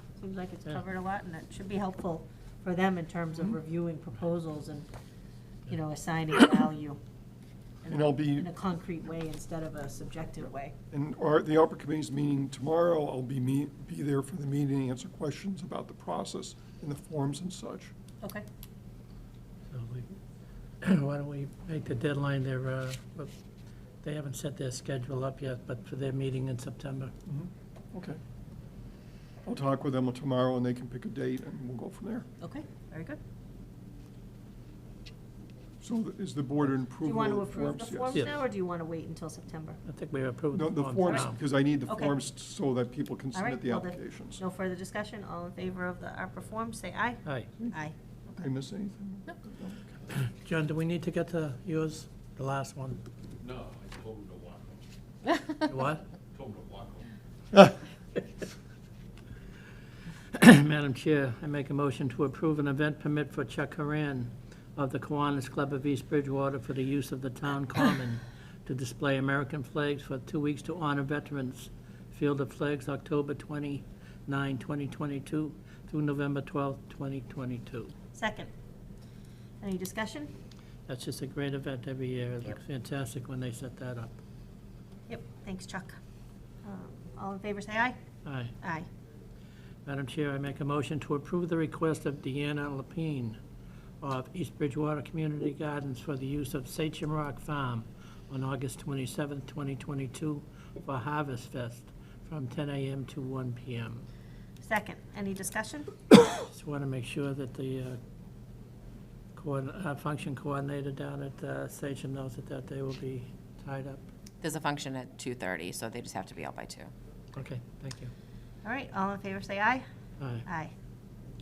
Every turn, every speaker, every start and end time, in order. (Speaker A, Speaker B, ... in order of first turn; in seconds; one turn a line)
Speaker A: 0.2-4.9
Speaker A: 5.7-7.0
Speaker A: 7.8-10.7
Speaker B: 7.9-8.5
Speaker B: 10.9-17.9
Speaker C: 19.7-20.2
Speaker C: 20.8-23.3
Speaker C: 24.0-27.1
Speaker B: 27.3-28.2
Speaker B: 29.4-32.3
Speaker A: 32.4-33.2
Speaker B: 35.8-38.3
Speaker A: 37.0-39.8
Speaker C: 39.9-41.4
Speaker B: 40.5-44.4
Speaker A: 41.9-42.2
Speaker A: 43.3-48.0
Speaker C: 47.2-47.5
Speaker B: 47.6-50.0
Speaker C: 50.1-53.0
Speaker D: 53.4-54.9
Speaker C: 55.6-56.1
Speaker D: 56.3-57.1
Speaker C: 60.3-77.9
Speaker A: 78.1-78.5
Speaker A: 79.6-80.3
Speaker C: 80.9-84.2
Speaker A: 85.1-86.0
Speaker A: 86.6-88.0
Speaker C: 88.2-88.5
Speaker A: 88.6-88.9
Speaker C: 89.8-93.4
Speaker C: 94.0-104.1
Speaker A: 104.6-105.9
Speaker C: 106.4-108.0
Speaker C: 109.3-114.1
Speaker E: 114.4-116.9
Speaker C: 117.3-118.1
Speaker A: 118.6-119.8
Speaker C: 120.2-120.5
Speaker A: 120.5-120.7